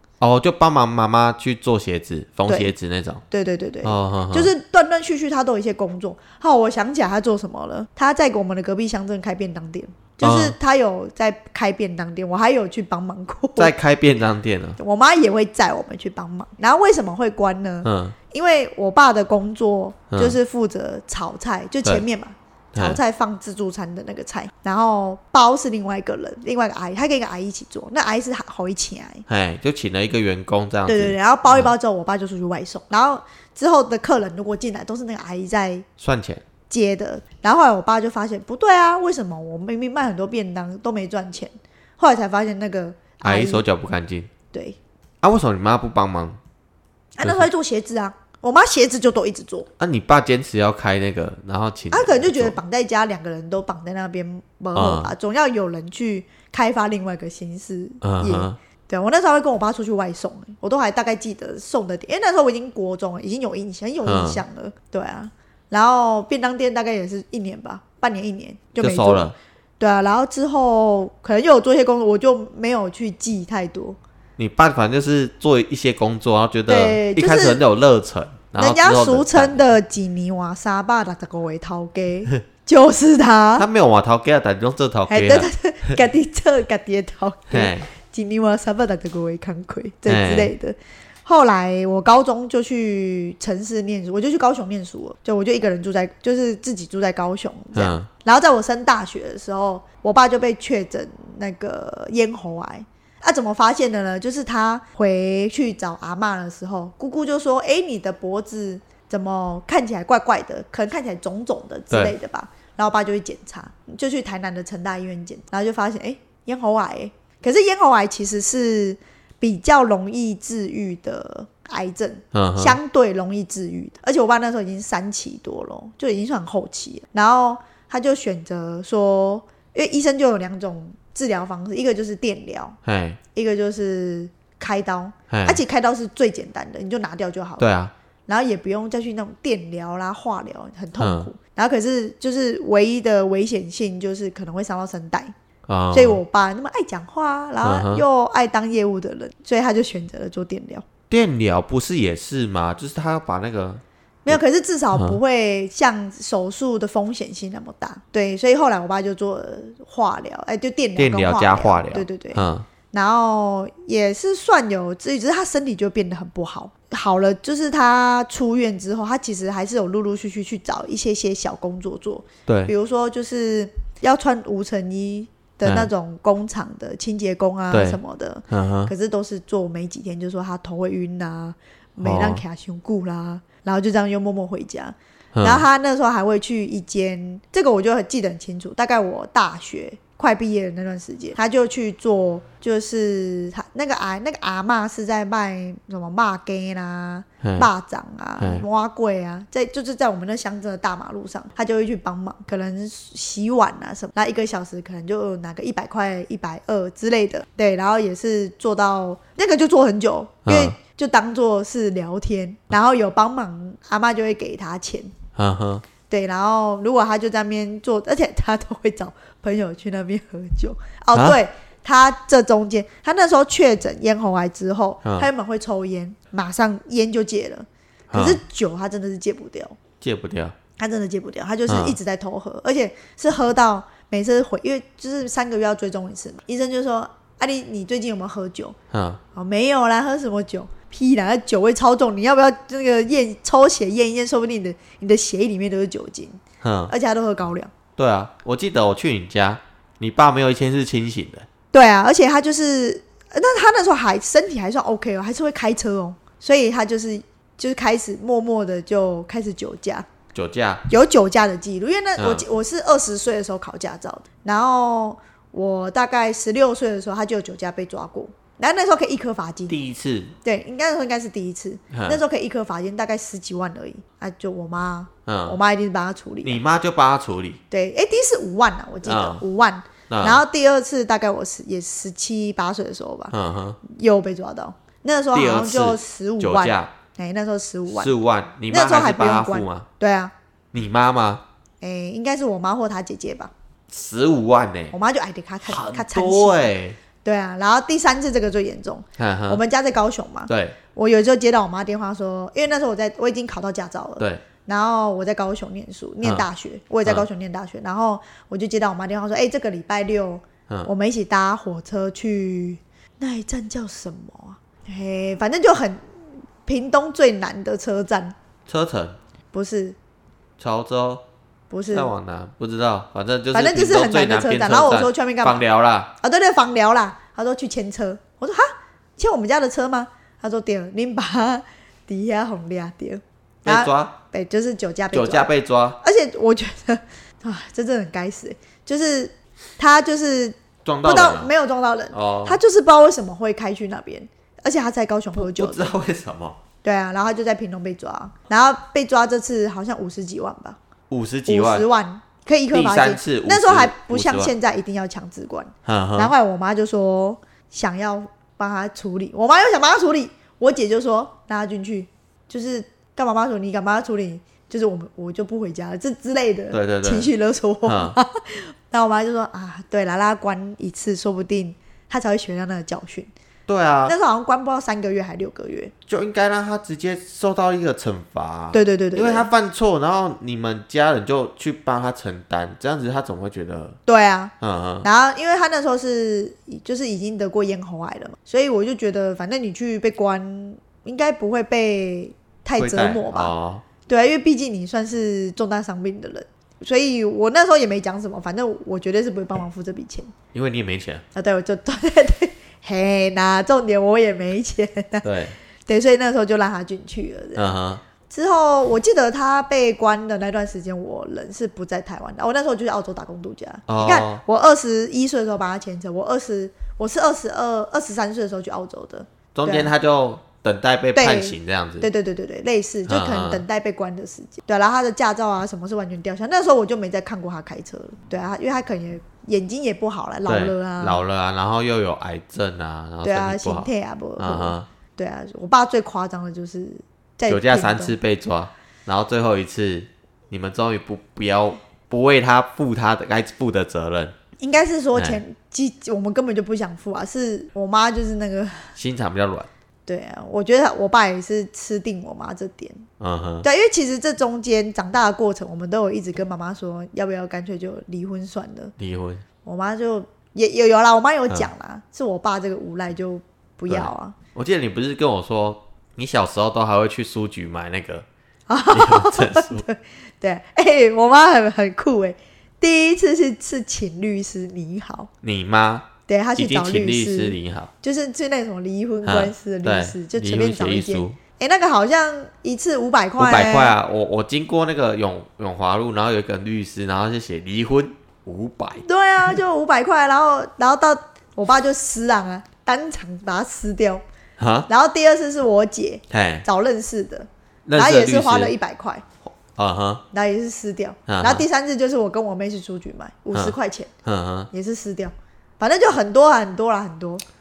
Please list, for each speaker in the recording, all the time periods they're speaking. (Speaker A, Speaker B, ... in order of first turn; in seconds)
Speaker A: 0.2-3.2, 3.8-4.5, 10.2-10.5, 13.6-14.8, 17.8-18.1, 20.1-20.4, 22.7-23.0, 29.3-31.7, 36.0-36.4, 43.2-44.3, 45.2-46.4, 49.8-52.6, 54.7-55.1, 58.0-58.5, 64.0-64.4, 68.8-69.3, 74.4-79.6, 83.6-85.9, 87.5-87.9, 90.1-90.5, 97.7-98.1, 122.3-122.8, 132.8-133.2, 135.3-135.6, 137.6-137.9, 141.0-141.3, 145.7-146.2, 147.6-148.0, 151.1-154.4, 154.9-155.2, 161.0-162.7, 172.5-172.7, 175.6-175.9, 177.7-178.0, 178.5-178.9, 182.0-182.4, 185.3-185.7, 197.4-197.7, 210.4-210.8, 215.3-215.8, 221.1-221.4, 228.1-228.4, 230.0-230.5, 231.7-232.0, 238.9-239.2, 246.6-246.9, 248.0-251.5, 260.3-260.8, 262.2-262.4, 269.7-270.3, 271.9-272.2, 275.2-275.6, 276.4-277.6, 279.0-279.4, 280.1-280.4, 283.3-283.8, 285.3-286.9, 287.9-289.9, 290.7-291.4, 293.9-294.9, 295.7-297.0, 299.2-299.6, 300.5-300.8, 318.6-319.2, 320.6-321.2, 321.9-326.1, 333.6-334.2, 335.1-336.0, 340.8-341.5, 342.1-342.6, 345.3-346.6, 351.1-351.9, 352.7-354.5, 355.8-356.3, 366.7-367.3, 367.9-368.1, 373.7-374.1, 376.1-384.0, 384.6-385.1, 392.8-393.8, 400.5-401.2, 405.2-405.5, 407.6-408.0, 413.9-414.4, 419.5-422.1, 423.1-423.6, 430.4-434.9, 437.5-444.3, 445.1-445.4, 448.9-449.7, 453.2-453.6, 459.0-459.4, 463.9-468.2, 468.9-469.8, 475.4-477.9, 479.2-481.4, 483.4-489.0, 494.6-494.9, 496.3-496.6, 497.9-498.7, 499.5-500.2, 501.3-501.6, 503.5-504.7
Speaker B: 2.5-2.7, 3.3-13.7, 14.8-29.2, 30.9-35.9, 36.7-43.6, 44.5-44.8, 47.1-49.7, 51.9-74.0, 76.7-77.6, 78.6-83.7, 85.1-132.8, 133.3-137.7, 138.3-145.3, 145.9-150.8, 154.2-215.1, 216.1-229.8, 230.8-238.7, 239.3-247.7, 251.7-260.1, 260.9-269.8, 270.4-276.6, 277.7-288.1, 288.7-290.3, 291.8-293.5, 294.9-296.7, 297.2-316.0, 316.6-318.3, 319.5-320.0, 321.7-322.1, 323.5-325.6, 326.2-328.6, 329.2-345.9, 346.8-350.8, 351.4-373.3, 374.1-375.9, 378.7-379.5, 384.1-384.5, 385.0-393.5, 394.1-400.3, 401.3-405.3, 405.9-407.8, 408.3-419.9, 421.1-431.2, 433.2-438.2, 444.6-448.9, 450.1-453.1, 453.6-458.9, 459.6-464.3, 468.7-475.3, 476.3-483.9, 489.0-494.2, 494.9-499.2, 500.3-504.1, 504.7-507.4